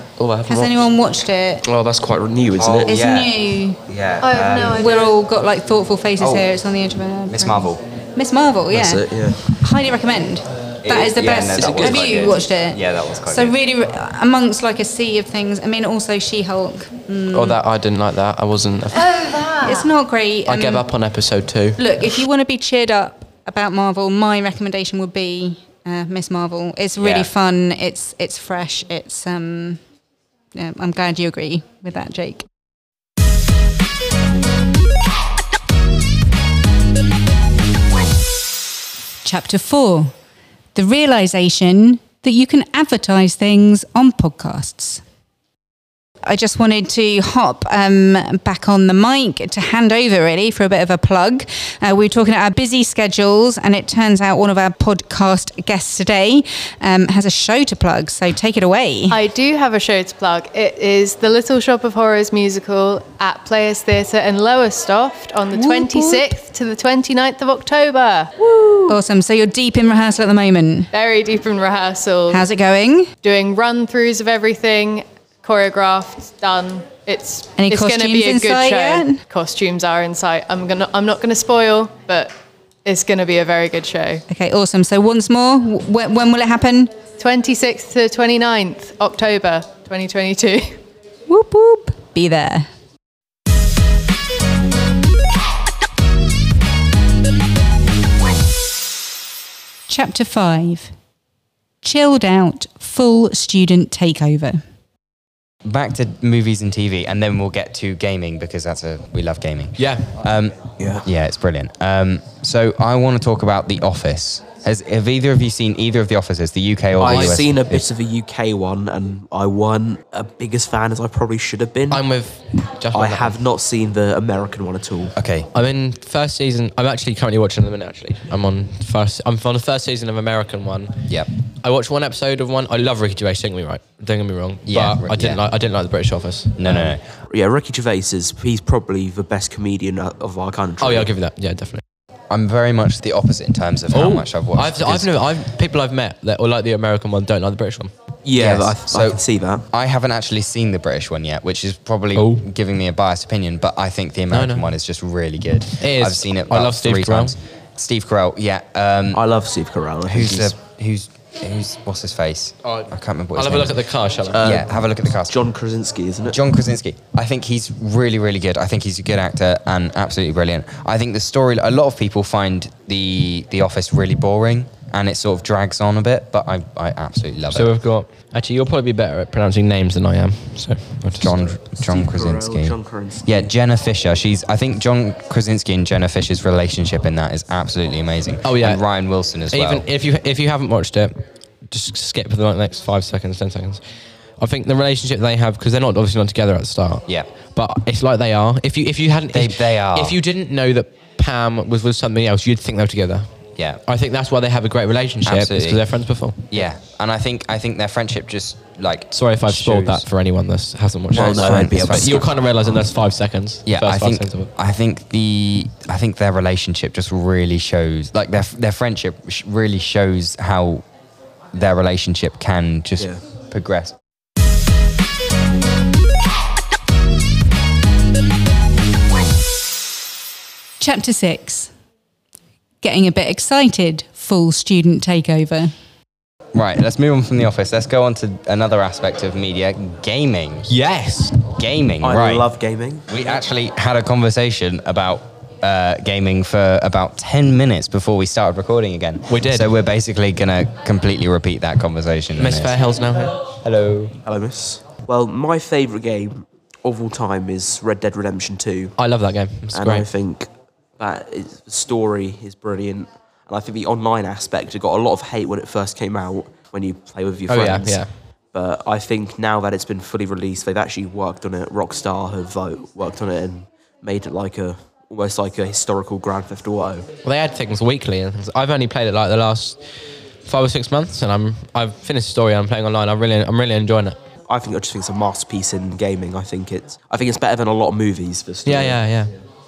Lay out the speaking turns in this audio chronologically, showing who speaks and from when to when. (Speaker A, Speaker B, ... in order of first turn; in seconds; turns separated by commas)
Speaker A: 0.2-0.9, Speaker B: 0.5-1.6, Speaker C: 1.6-3.0, Speaker D: 2.6-4.8, Speaker B: 2.9-3.8, Speaker E: 4.2-5.2, Speaker B: 4.6-17.6, Speaker D: 6.2-6.5, Speaker D: 7.3-7.8, Speaker C: 8.7-9.6, Speaker D: 10.8-13.6, Speaker C: 11.5-12.4, Speaker A: 17.3-19.1, Speaker E: 18.9-19.9, Speaker B: 19.4-20.9, Speaker A: 20.5-21.8, Speaker B: 21.8-29.8, Speaker B: 30.6-32.5, Speaker B: 39.2-40.1, Speaker B: 40.8-45.0, Speaker B: 46.2-59.2, Speaker E: 59.1-69.0, Speaker B: 65.5-66.3, Speaker B: 68.9-70.9, Speaker E: 70.9-72.5, Speaker B: 72.3-73.1, Speaker E: 73.2-82.3, Speaker B: 77.6-79.2, Speaker E: 82.8-84.2, Speaker B: 84.3-87.0, Speaker E: 87.2-90.8, Speaker B: 91.3-92.7, Speaker B: 99.9-100.9, Speaker B: 101.8-104.6, Speaker D: 105.6-117.8, Speaker A: 109.8-110.1, Speaker C: 110.8-111.1, Speaker C: 117.0-122.1, Speaker A: 117.0-117.5, Speaker A: 121.9-123.4, Speaker C: 122.9-125.2, Speaker D: 125.2-125.5, Speaker A: 125.5-131.1, Speaker A: 131.6-136.9, Speaker D: 134.7-135.4, Speaker D: 136.6-137.0, Speaker C: 137.3-141.1, Speaker A: 140.8-141.8, Speaker D: 142.3-145.2, Speaker A: 143.9-147.9, Speaker C: 148.2-149.7, Speaker D: 148.3-159.2, Speaker A: 152.2-152.5, Speaker A: 154.3-154.7, Speaker A: 155.8-157.4, Speaker C: 159.1-160.6, Speaker D: 160.1-163.8, Speaker A: 162.6-164.6, Speaker C: 164.3-166.4, Speaker D: 164.4-165.4, Speaker D: 166.3-177.8, Speaker A: 177.5-181.6, Speaker D: 181.2-189.8, Speaker C: 181.8-183.5, Speaker A: 188.4-188.8, Speaker A: 189.5-193.8, Speaker A: 194.4-203.3, Speaker D: 199.3-200.2, Speaker A: 203.8-206.4, Speaker D: 205.3-210.1, Speaker A: 209.1-214.5, Speaker C: 211.1-212.3, Speaker D: 211.1-212.3, Speaker D: 213.7-220.8, Speaker D: 221.5-224.0, Speaker C: 223.0-223.3, Speaker B: 230.8-231.7, Speaker B: 232.8-235.7, Speaker D: 236.5-240.7, Speaker A: 240.7-241.4, Speaker D: 241.5-242.5, Speaker C: 242.0-243.1, Speaker D: 243.1-252.9, Speaker A: 249.3-249.7, Speaker A: 252.4-253.4, Speaker D: 253.6-254.2, Speaker C: 254.2-259.0, Speaker A: 259.0-260.1, Speaker C: 259.7-277.1, Speaker A: 267.5-268.1, Speaker A: 277.2-279.8, Speaker A: 280.5-284.2, Speaker C: 284.5-289.1, Speaker A: 288.6-289.3